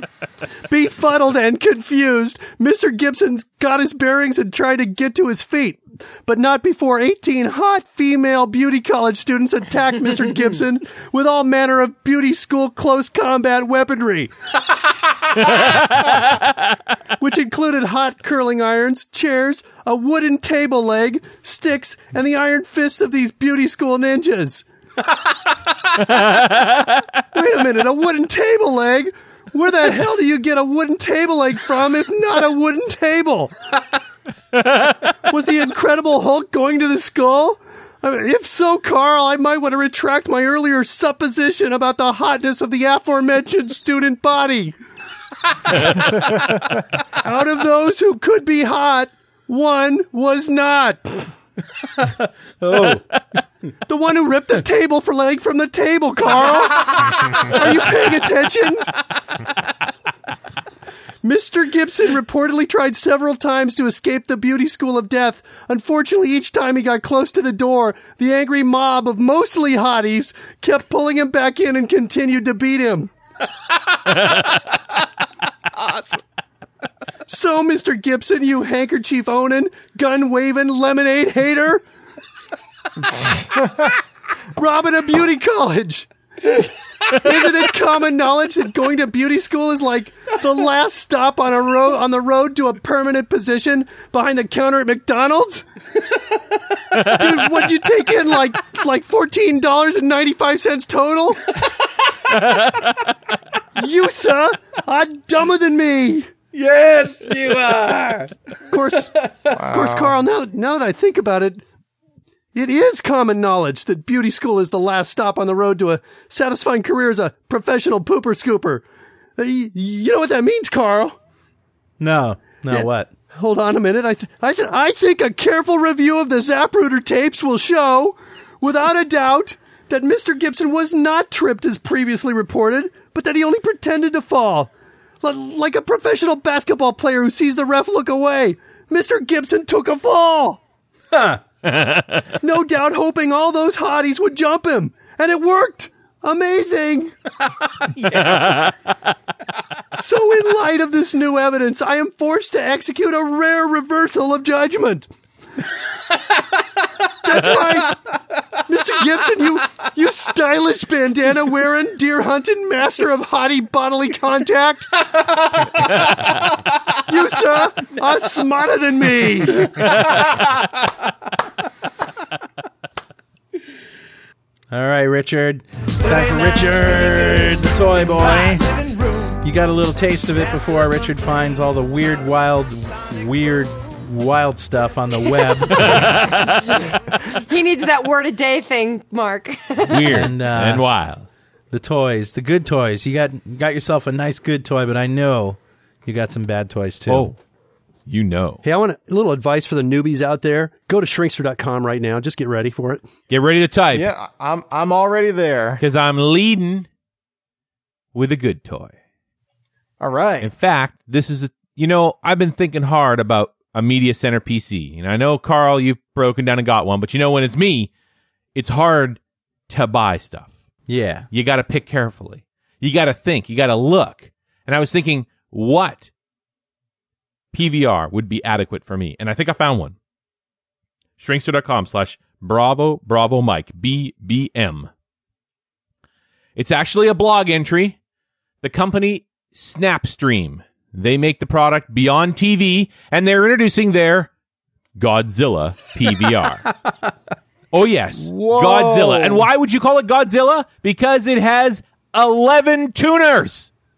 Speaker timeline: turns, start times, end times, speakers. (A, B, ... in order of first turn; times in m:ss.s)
0:00.7-0:14.3 A
0:15.4-0:16.4 B
0:17.2-0:24.6 A
0:26.0-0:27.1 B
0:27.3-0:33.5 A
0:35.3-0:44.7 A
0:47.2-0:51.3 A
0:52.0-0:53.0 C
0:53.9-0:58.9 A
1:01.2-1:13.1 A
1:14.1-1:14.6 B
1:17.3-1:21.8 A
1:24.6-1:35.6 A
1:37.0-1:41.5 A
1:42.4-1:42.9 B
1:43.8-1:46.3 A
1:46.5-1:48.3 C
1:48.7-1:51.6 A
1:49.5-1:50.2 D
1:52.5-1:58.8 A
1:59.4-2:01.2 A
2:02.0-2:03.1 C
2:02.7-2:14.7 A
2:15.2-2:20.6 A
2:21.1-2:21.4 C
2:21.6-2:22.2 B
2:22.4-2:27.1 A
2:28.0-2:28.7 B
2:30.0-2:35.1 A
2:37.2-2:38.0 A
2:38.6-2:44.9 A
2:47.0-2:49.9 A
2:54.7-3:06.2 C
3:05.7-3:06.8 B
3:07.3-3:10.3 E
3:09.8-3:11.3 B
3:10.1-3:10.9 C
3:11.7-3:17.3 C
3:17.1-3:17.3 B
3:18.1-3:18.6 B
3:18.6-3:23.0 A
3:23.3-3:24.1 B
3:23.9-3:25.8 D
3:25.8-3:26.9 B
3:28.1-3:28.9 B
3:30.0-3:30.5 D
3:30.4-3:37.9 B
3:38.5-3:40.5 B
3:40.9-3:41.3 C
3:41.3-3:46.1 B
3:47.5-3:49.9 B
3:51.2-3:54.9 B
3:56.6-3:58.0 B
3:58.6-4:04.3 B
4:05.0-4:06.6 B
4:07.7-4:13.7 B
4:08.2-4:09.5 D